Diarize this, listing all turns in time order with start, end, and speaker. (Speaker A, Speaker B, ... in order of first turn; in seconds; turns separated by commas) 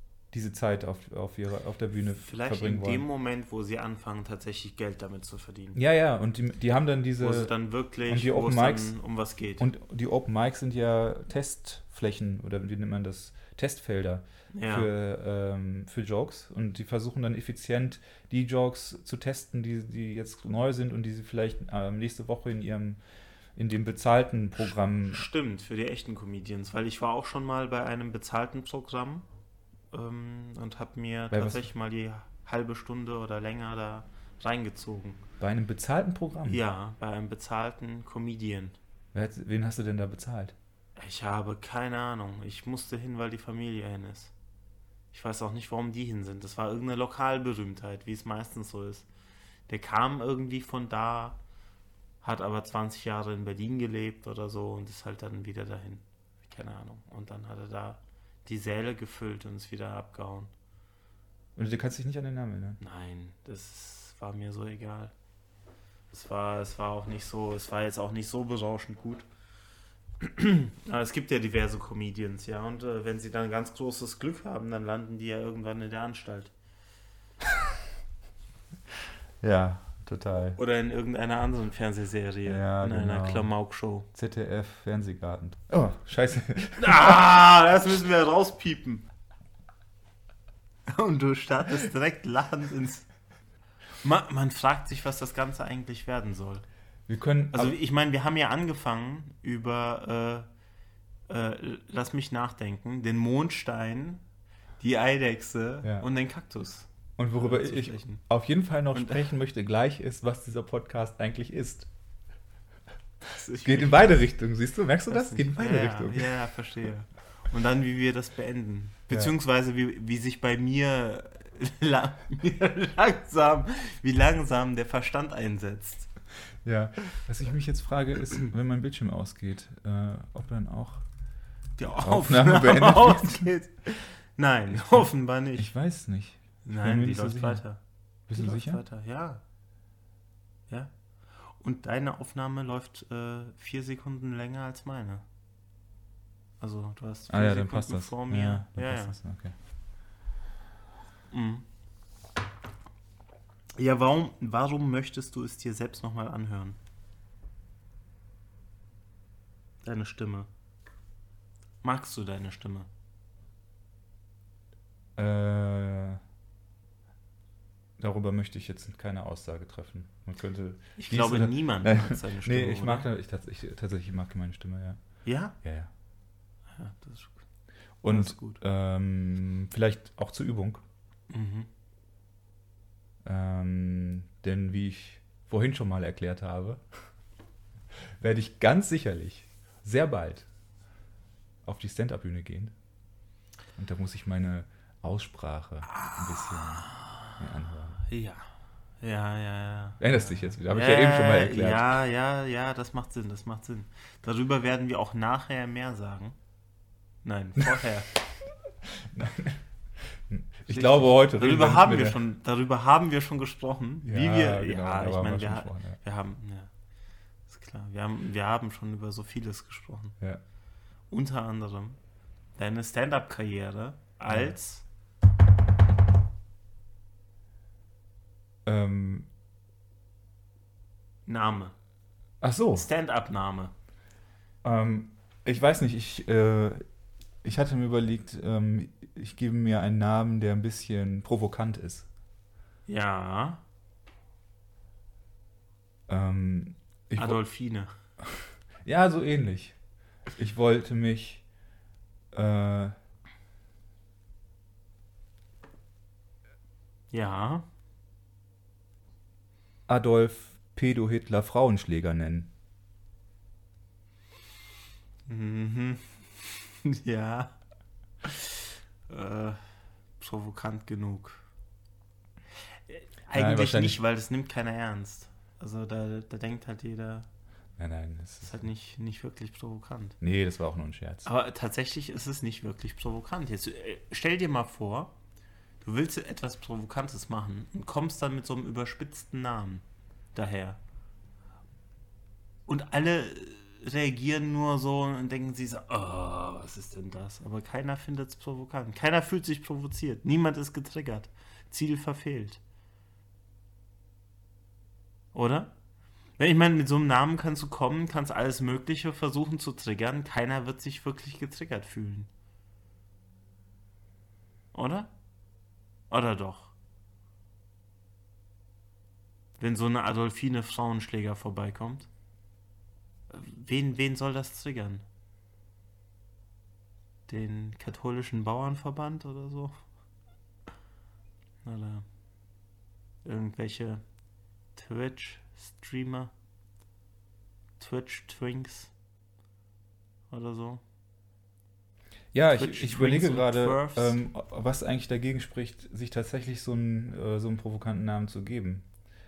Speaker A: 0.3-3.0, Speaker B: 2.2-5.8, Speaker A: 5.7-7.5, Speaker B: 7.2-9.7, Speaker A: 8.1-8.9, Speaker A: 9.6-23.0, Speaker B: 14.5-14.9, Speaker A: 23.6-25.2, Speaker B: 25.0-29.2, Speaker B: 29.9-35.2, Speaker A: 31.3-31.7, Speaker A: 35.4-36.6, Speaker B: 36.5-38.8, Speaker A: 39.1-40.5, Speaker B: 41.0-44.3, Speaker B: 45.1-49.1, Speaker B: 49.7-51.4, Speaker B: 52.2-60.5, Speaker A: 61.5-62.8, Speaker B: 62.8-65.1, Speaker B: 66.1-69.2, Speaker B: 70.2-76.5, Speaker A: 77.4-77.8, Speaker A: 79.4-80.6, Speaker B: 80.6-84.1, Speaker A: 82.5-83.5, Speaker A: 84.1-87.3, Speaker B: 86.8-89.0, Speaker B: 90.9-93.1, Speaker B: 94.0-96.6, Speaker A: 97.1-97.8, Speaker B: 97.5-100.5, Speaker B: 101.3-104.2, Speaker B: 104.8-108.2, Speaker A: 107.2-111.9, Speaker B: 108.9-109.2, Speaker B: 113.2-114.2, Speaker A: 113.6-116.3, Speaker B: 115.1-126.1, Speaker A: 126.6-131.0, Speaker B: 131.8-135.7, Speaker A: 132.0-133.5, Speaker A: 134.7-137.6, Speaker B: 136.6-137.8, Speaker A: 138.3-138.8, Speaker B: 138.3-139.4, Speaker B: 141.5-145.2, Speaker B: 146.6-149.2, Speaker A: 147.3-149.5, Speaker B: 151.3-151.6, Speaker B: 153.8-156.8, Speaker B: 159.8-160.5, Speaker B: 161.8-162.9, Speaker A: 165.2-166.2, Speaker A: 168.0-175.0, Speaker B: 171.0-173.1, Speaker B: 175.2-175.6, Speaker A: 175.6-175.9, Speaker B: 176.7-177.4, Speaker A: 178.0-180.8, Speaker B: 178.1-178.6, Speaker B: 181.3-181.7, Speaker A: 183.2-186.8, Speaker A: 188.2-190.5, Speaker A: 191.6-192.7, Speaker A: 193.8-196.9, Speaker B: 195.9-197.3, Speaker A: 197.4-198.0, Speaker B: 198.0-198.4, Speaker B: 199.0-206.3, Speaker A: 200.0-201.9, Speaker B: 207.2-208.1, Speaker A: 208.8-212.2, Speaker B: 210.7-216.7, Speaker A: 214.0-216.0, Speaker B: 217.5-220.1, Speaker B: 221.1-222.0, Speaker B: 222.6-224.8, Speaker A: 224.3-224.5, Speaker A: 228.7-229.3, Speaker B: 231.3-231.7, Speaker A: 232.4-232.9, Speaker B: 232.7-233.7, Speaker A: 234.6-236.8, Speaker A: 237.4-242.1, Speaker B: 242.9-243.6, Speaker A: 246.1-247.4, Speaker B: 247.1-247.9, Speaker A: 248.3-249.8, Speaker A: 250.3-251.4, Speaker A: 252.3-252.9, Speaker B: 257.1-257.6, Speaker A: 259.9-262.5, Speaker B: 265.3-267.5, Speaker B: 268.2-269.6, Speaker B: 270.2-271.4, Speaker B: 272.9-277.3, Speaker A: 273.3-274.0, Speaker A: 277.8-278.6, Speaker B: 278.4-280.2, Speaker A: 280.2-281.3, Speaker B: 281.2-285.1, Speaker B: 285.8-289.8, Speaker B: 290.3-290.8, Speaker B: 292.7-302.6, Speaker B: 305.3-305.7, Speaker B: 306.4-312.3, Speaker B: 314.7-315.1, Speaker B: 316.1-316.7, Speaker B: 319.6-322.1, Speaker B: 323.3-325.0, Speaker B: 327.3-329.7, Speaker B: 331.6-332.0, Speaker B: 333.2-334.0, Speaker B: 334.8-336.3, Speaker B: 337.8-338.9, Speaker B: 340.3-340.8, Speaker A: 342.3-348.8, Speaker B: 342.5-344.2